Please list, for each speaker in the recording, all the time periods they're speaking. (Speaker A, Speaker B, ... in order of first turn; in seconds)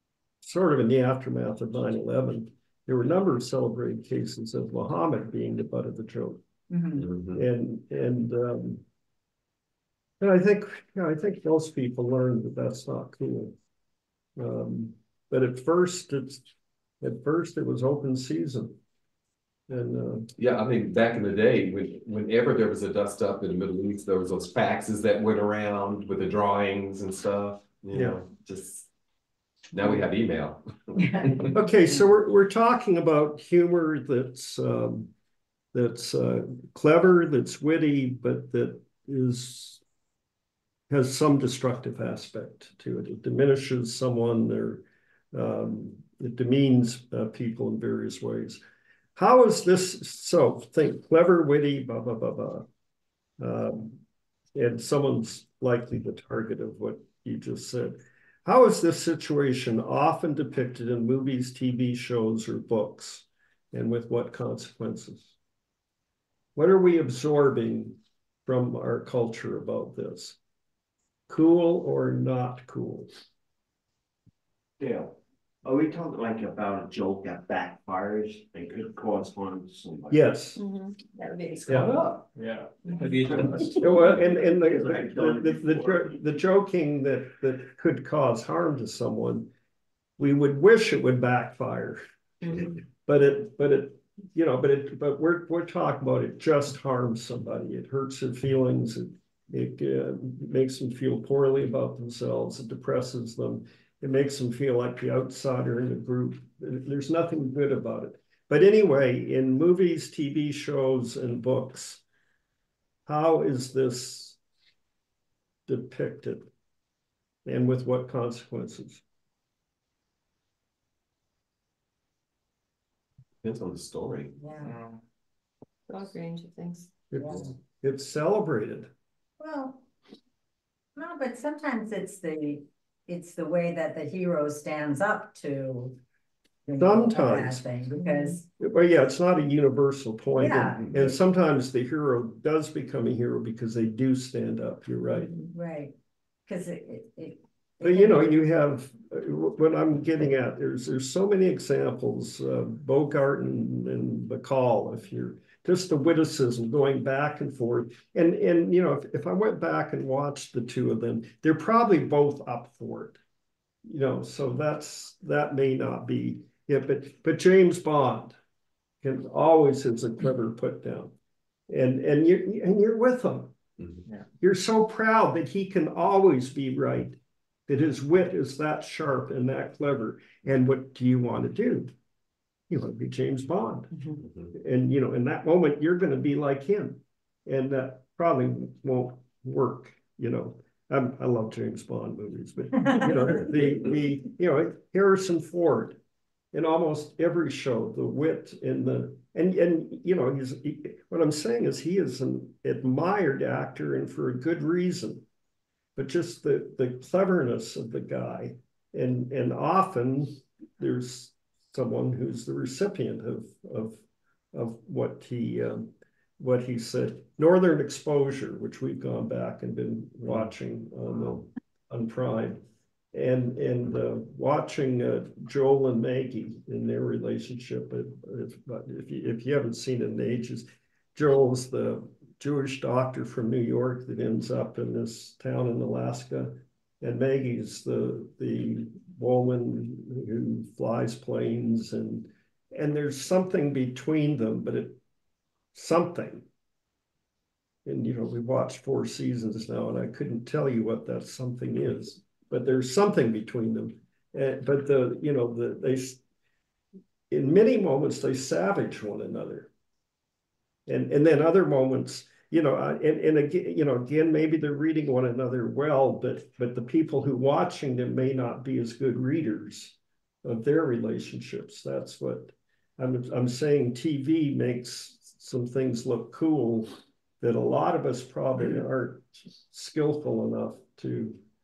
Speaker A: 0.4-6.4, 7.3-8.8, 10.2-13.5, 14.3-16.4, 17.0-18.8, 19.7-20.3, 27.9-28.2, 31.5-35.1, 35.7-39.8, 40.9-48.6, 49.1-52.7, 53.4-54.0, 54.5-65.3, 66.5-70.4, 71.3-73.1, 80.1-80.6, 81.7-82.2, 83.7-89.5, 90.2-112.0, 113.0-114.4, 115.7-116.5, 117.4-119.0, 127.1-128.9, 136.8-137.7, 138.6-145.3, 147.8-163.2, 163.8-168.3, 169.0-171.1, 171.7-173.5, 174.4-181.9, 182.7-183.9, 184.5-196.0, 196.5-205.2, 205.9-214.0, 214.5-222.6, 223.1-245.0, 245.7-246.4, 247.8-256.2, 257.3-259.7, 260.9-281.4
Speaker B: 6.7-7.1, 31.0-31.4, 124.4-124.8, 129.4-129.8, 130.9-136.0, 136.7-138.4, 140.4-141.1, 145.5-145.9, 146.5-148.3
Speaker C: 7.0-7.4, 20.4-28.9, 29.7-31.6, 123.4-124.4, 173.8-174.0, 184.2-184.5
Speaker D: 74.8-80.2, 83.2-83.8, 84.5-86.2
Speaker E: 80.5-82.1, 82.8-83.1, 92.4-92.8, 125.9-126.9, 138.0-138.4, 145.2-145.5
Speaker F: 82.3-84.1, 124.6-125.0